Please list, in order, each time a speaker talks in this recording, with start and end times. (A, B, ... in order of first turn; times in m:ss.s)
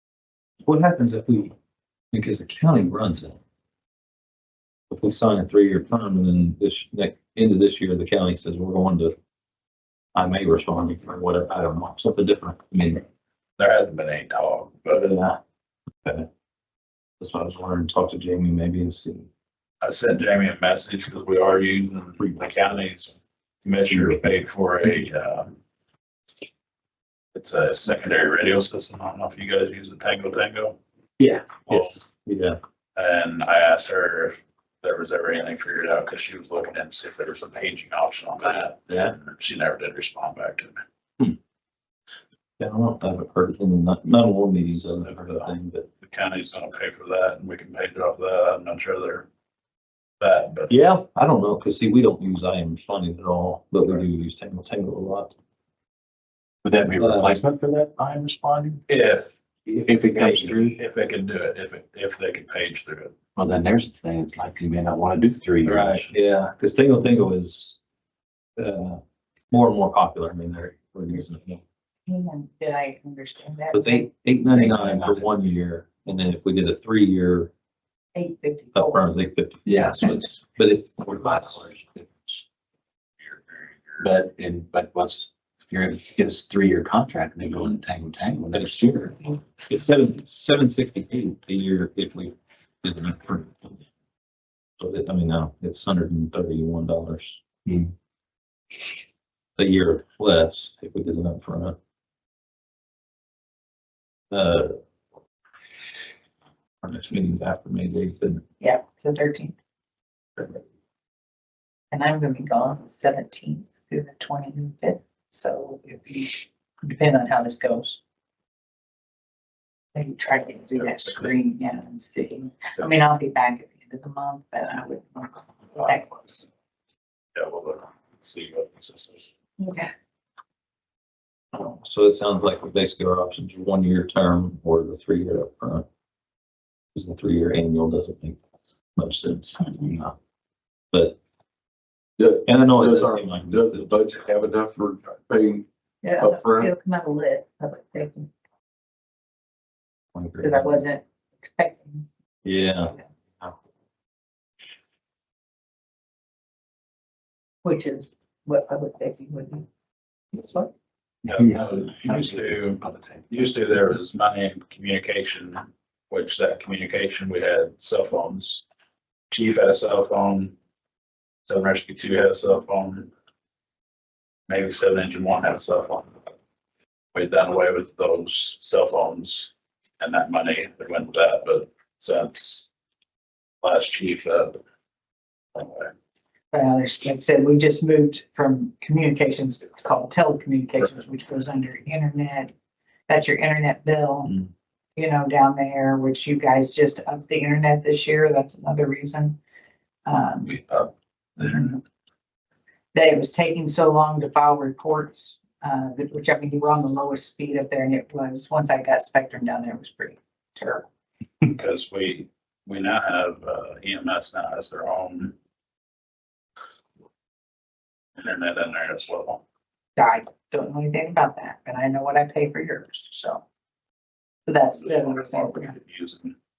0:00.6-0:01.5 A
0:02.1-0:03.4 A
0:04.9-0:09.1 A
0:10.1-0:13.0 A
0:13.6-0:15.1 B
0:14.9-0:15.4 A
0:17.2-0:19.3 A
0:19.8-0:25.5 B
0:23.9-0:24.2 A
0:27.3-0:30.8 B
0:31.2-0:32.6 A
0:31.6-0:32.0 B
0:33.0-0:40.8 B
0:38.9-0:39.1 A
0:42.6-0:45.9 A
0:45.0-0:49.3 B
0:50.2-0:50.7 B
0:50.7-0:55.4 A
0:56.6-0:58.8 C
0:56.9-0:57.4 A
0:58.9-0:59.3 B
0:59.6-1:00.6 A
0:59.9-1:00.8 C
1:00.5-1:03.2 B
1:03.4-1:06.1 C
1:05.6-1:07.8 A
1:08.6-1:09.0 A
1:09.5-1:11.6 A
1:12.1-1:14.1 D
1:13.7-1:17.5 A
1:14.5-1:15.3 C
1:18.1-1:19.0 D
1:18.7-1:22.4 A
1:19.6-1:20.2 C
1:23.2-1:24.0 B
1:24.0-1:29.4 C
1:28.5-1:33.8 A
1:34.8-1:37.4 A
1:37.6-1:37.9 C
1:39.6-1:41.8 A
1:44.3-1:44.8 A
1:46.8-1:48.4 A
1:48.6-1:49.6 D
1:51.9-1:58.0 D
1:59.9-2:06.4 D
2:00.8-2:01.1 B
2:07.3-2:09.3 B
2:09.6-2:09.9 D
2:11.5-2:15.8 A
2:16.9-2:18.4 A
2:19.0-2:20.2 A
2:20.9-2:21.2 A
2:22.2-2:25.6 E
2:22.4-2:24.0 A
2:26.0-2:28.3 D
2:26.2-2:26.7 E
2:30.1-2:30.8 A
2:30.4-2:32.0 D
2:32.4-2:33.5 A
2:37.6-2:39.7 D
2:40.3-2:40.7 D
2:41.2-2:48.6 B
2:41.4-2:43.2 C
2:49.3-2:50.5 B
2:51.4-2:53.1 B
2:54.5-2:56.2 B
2:57.1-3:02.6 B
3:03.6-3:04.6 B
3:05.5-3:05.9 B
3:06.5-3:12.5 D
3:13.1-3:14.4 D
3:15.0-3:19.4 D
3:20.0-3:20.6 D
3:20.4-3:21.8 B
3:21.4-3:21.8 D
3:22.9-3:30.9 D
3:31.4-3:35.3 B
3:38.2-3:39.4 B
3:40.0-3:43.4 D
3:44.4-3:45.8 D
3:44.7-3:46.3 B